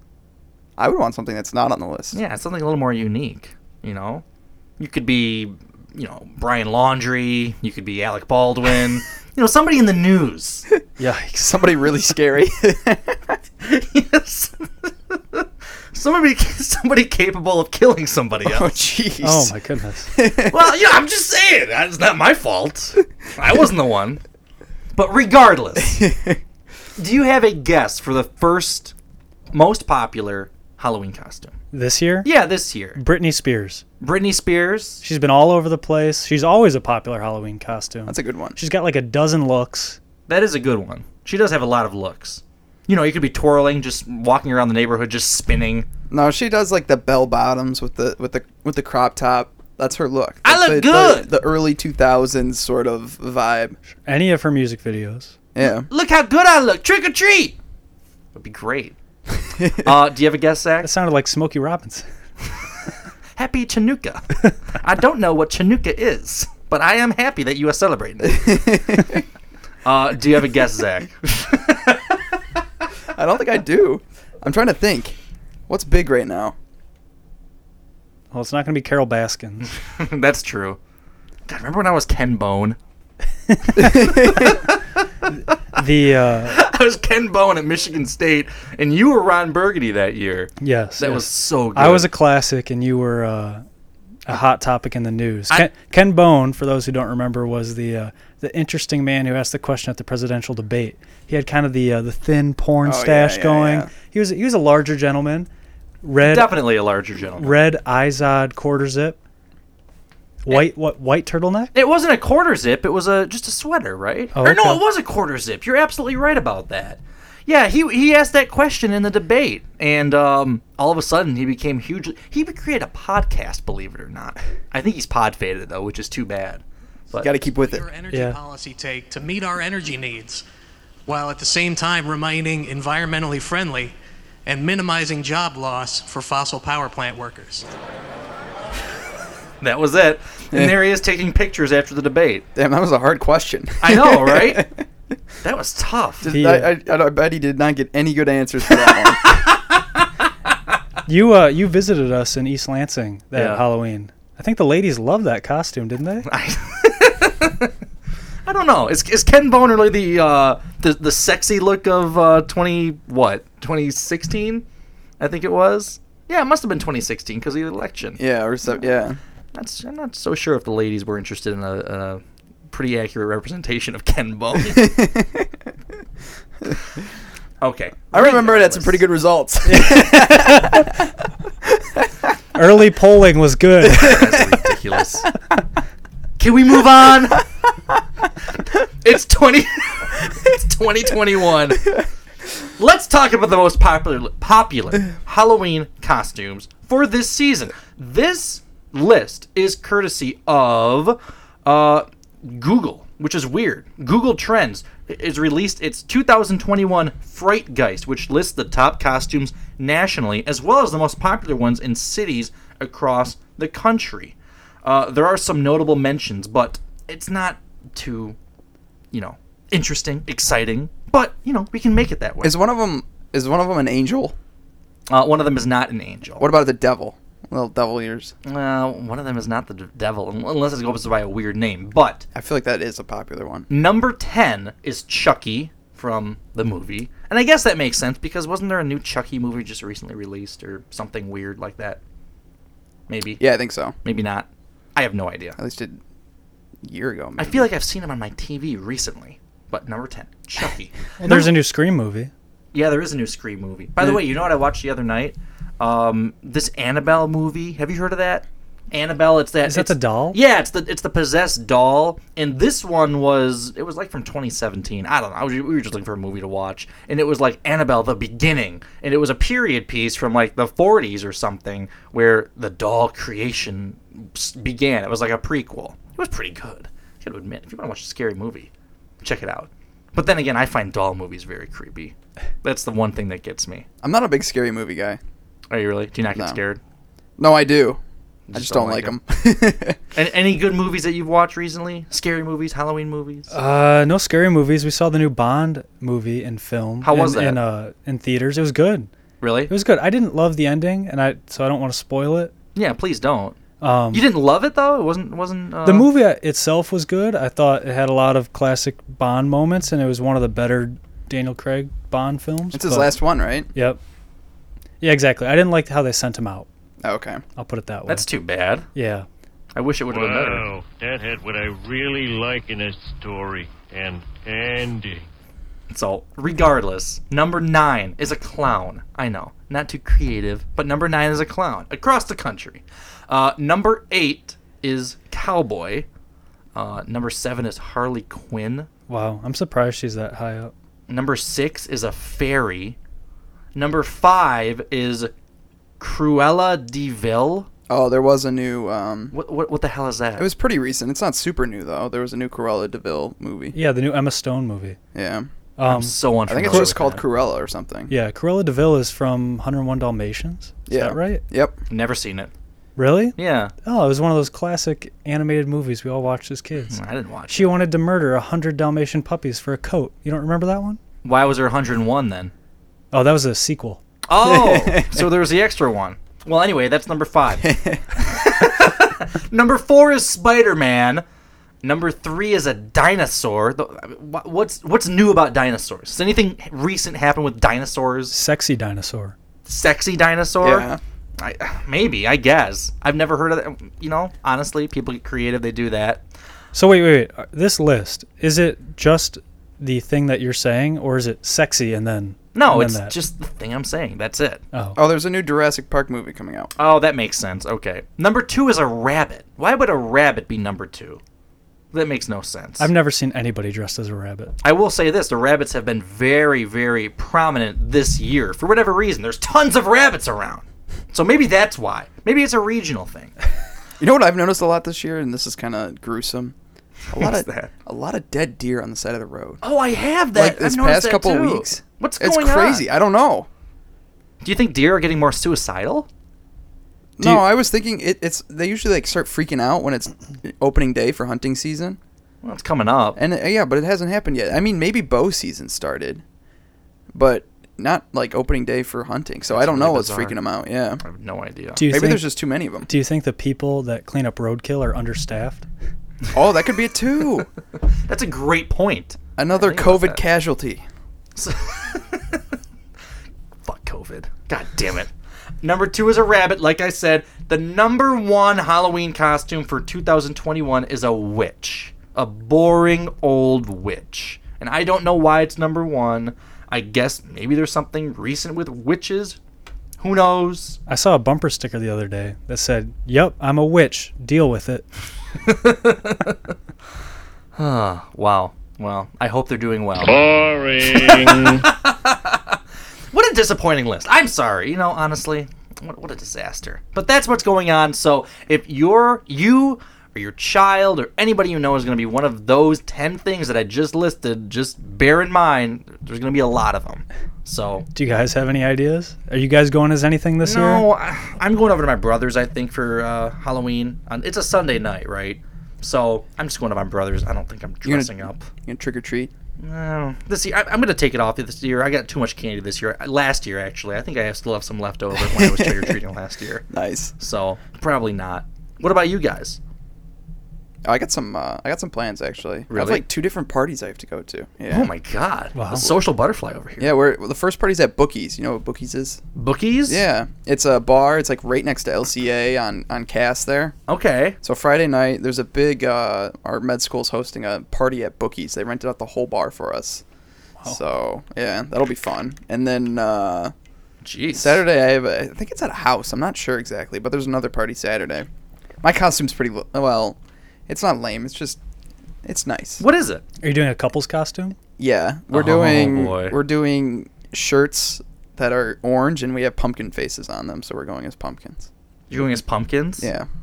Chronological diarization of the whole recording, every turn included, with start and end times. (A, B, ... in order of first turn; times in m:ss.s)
0:00.8-0:02.2 A
0:02.1-0:04.2 B
0:04.8-0:10.6 B
0:11.0-0:11.6 C
0:11.4-0:13.4 A
0:13.6-0:18.7 B
0:18.4-0:19.5 A
0:19.2-0:20.1 C
0:20.1-0:20.7 A
0:20.5-0:24.2 B
0:25.0-0:26.0 B
0:25.8-0:26.4 A
0:27.0-0:28.9 B
0:29.5-0:31.6 B
0:31.7-0:32.3 C
0:32.2-0:33.0 B
0:33.0-0:33.8 C
0:34.0-0:35.0 B
0:35.0-0:40.0 C
0:38.1-0:38.6 A
0:40.3-0:45.9 B
0:46.1-0:53.8 A
0:50.4-0:51.3 B
0:53.9-0:55.4 C
0:55.6-0:55.9 A
0:55.6-0:57.6 B
0:58.4-0:59.0 B
0:59.5-0:59.9 A
0:59.8-1:00.9 B
1:00.8-1:02.1 C
1:03.4-1:08.6 B
1:08.2-1:09.2 A
1:09.9-1:12.1 B
1:13.2-1:15.2 A
1:15.7-1:16.6 A
1:18.3-1:19.7 C
1:19.7-1:20.8 B
1:21.5-1:22.8 B
1:23.5-1:24.0 C
1:23.8-1:24.5 A
1:24.3-1:24.8 B
1:25.8-1:26.6 C
1:26.5-1:32.1 B
1:30.6-1:33.6 C
1:34.3-1:45.5 C
1:42.8-1:43.9 A
1:46.0-1:46.5 C
1:46.2-1:47.6 B
1:47.4-1:49.2 C
1:50.4-1:51.7 C
1:51.7-2:07.3 B
1:54.4-1:54.8 C
2:07.2-2:07.9 A
2:07.4-2:10.4 D
2:08.1-2:08.4 C
2:11.1-2:14.0 D
2:14.5-2:17.7 D
2:19.6-2:22.5 B
2:22.6-2:24.8 A
2:23.8-2:24.6 B
2:25.4-2:26.3 B
2:26.2-2:29.4 A
2:26.3-2:26.7 C
2:31.1-2:36.3 C
2:33.3-2:33.6 B
2:36.3-2:37.7 B
2:38.5-2:44.6 B
2:45.2-2:48.2 B
2:48.2-2:49.2 A
2:49.5-2:54.9 B
2:54.6-2:55.5 A
2:57.6-2:59.0 B
2:58.1-3:01.0 A
2:59.7-3:00.8 C
3:01.8-3:02.0 A
3:02.6-3:04.2 C
3:03.9-3:05.3 B
3:04.1-3:04.4 A
3:06.4-3:07.4 B
3:09.0-3:11.8 B
3:12.8-3:38.4 B
3:39.1-3:42.6 B
3:42.4-3:44.4 A
3:45.1-3:46.5 B
3:46.4-3:48.3 A
3:48.4-3:52.3 B
3:52.4-3:53.7 A
3:53.7-4:02.0 B
4:03.1-4:03.4 B
4:03.4-4:04.0 A
4:04.0-4:05.6 B
4:05.6-4:06.0 A
4:06.8-4:07.7 A
4:07.4-4:11.5 B
4:11.2-4:12.3 C
4:12.7-4:38.7 B
4:19.7-4:20.4 C
4:39.2-4:43.9 B
4:44.0-4:45.2 A
4:45.7-4:46.8 B
4:46.4-4:46.6 A
4:47.4-4:48.0 A
4:48.5-4:49.2 B
4:48.5-4:50.0 A
4:50.2-4:53.5 B
4:53.5-4:59.1 C
4:57.0-4:57.6 B
4:59.4-4:59.7 B
4:59.7-5:02.5 C
5:02.8-5:03.6 B
5:03.8-5:04.2 C
5:04.1-5:06.1 B
5:05.8-5:13.1 C
5:12.7-5:13.7 A
5:15.0-5:16.7 C
5:17.0-5:17.4 A
5:17.6-5:18.3 C
5:18.1-5:18.9 B
5:19.0-5:19.3 C
5:19.8-5:20.7 B
5:20.1-5:25.3 E
5:25.9-5:36.1 B
5:36.8-5:38.9 B
5:39.1-5:40.7 C
5:41.1-5:43.0 B
5:43.8-5:45.3 B
5:46.0-5:47.7 B
5:47.9-5:49.3 A
5:49.3-5:50.5 B
5:50.4-5:53.8 A
5:53.8-5:55.0 C
5:55.1-5:55.5 A
5:55.8-5:56.2 C
5:55.9-5:57.2 B
5:56.5-5:58.1 A
5:56.7-5:57.0 C
5:58.1-6:01.4 C
6:00.9-6:01.8 A
6:01.9-6:02.5 B
6:03.0-6:07.0 C
6:03.4-6:03.7 B
6:06.9-6:07.8 B
6:07.5-6:11.0 C
6:11.2-6:12.5 B
6:13.1-6:14.0 C
6:14.3-6:21.2 B
6:14.4-6:15.3 A
6:17.6-6:18.0 A
6:21.8-6:28.3 B
6:28.3-6:29.4 C
6:29.7-6:36.2 B
6:30.6-6:31.0 A
6:36.7-6:43.2 C
6:42.6-6:44.6 B
6:44.7-6:45.0 C
6:45.0-6:46.7 A
6:46.8-6:51.2 B
6:51.9-6:52.9 B
6:52.8-6:54.5 C
6:54.6-7:03.3 B
7:04.0-7:06.6 A
7:07.1-7:09.6 A
7:07.1-7:07.7 B
7:09.6-7:12.8 B
7:10.3-7:13.5 A
7:14.4-7:16.1 B
7:17.2-7:22.0 A
7:22.4-7:23.2 B
7:23.2-7:26.2 A
7:27.1-7:31.0 A
7:29.5-7:30.4 B
7:31.0-7:31.8 B
7:31.8-7:32.2 C
7:31.9-7:32.9 A
7:32.9-7:35.7 C
7:36.3-7:37.5 A
7:38.1-7:40.2 B
7:39.4-7:40.8 A
7:41.4-7:42.4 B
7:43.6-7:45.1 B
7:45.6-7:59.4 B
8:00.0-8:00.8 B
8:00.9-8:04.8 C
8:05.5-8:06.4 B
8:07.6-8:10.3 B
8:10.0-8:11.7 E
8:10.8-8:12.6 B
8:13.1-8:27.9 B
8:28.0-8:30.8 C
8:30.4-8:38.5 B
8:37.8-8:39.3 A
8:39.6-8:46.6 B
8:45.2-8:46.0 A
8:46.7-8:47.1 A
8:47.2-8:49.6 B
8:50.8-8:54.9 A
8:52.7-8:53.0 B
8:54.7-8:57.0 B
8:55.6-8:55.9 C
8:56.8-8:59.2 A
8:59.4-9:00.0 B
8:59.9-9:03.8 A
9:03.9-9:04.4 B
9:04.4-9:10.0 A
9:10.7-9:13.5 A
9:14.0-9:14.6 B
9:14.3-9:18.3 A
9:18.8-9:20.2 A
9:20.7-9:21.6 A
9:22.2-9:22.8 A
9:22.8-9:23.2 B
9:23.4-9:24.6 C
9:24.8-9:31.7 A
9:25.3-9:26.4 B
9:32.1-9:33.1 B
9:33.0-9:33.3 A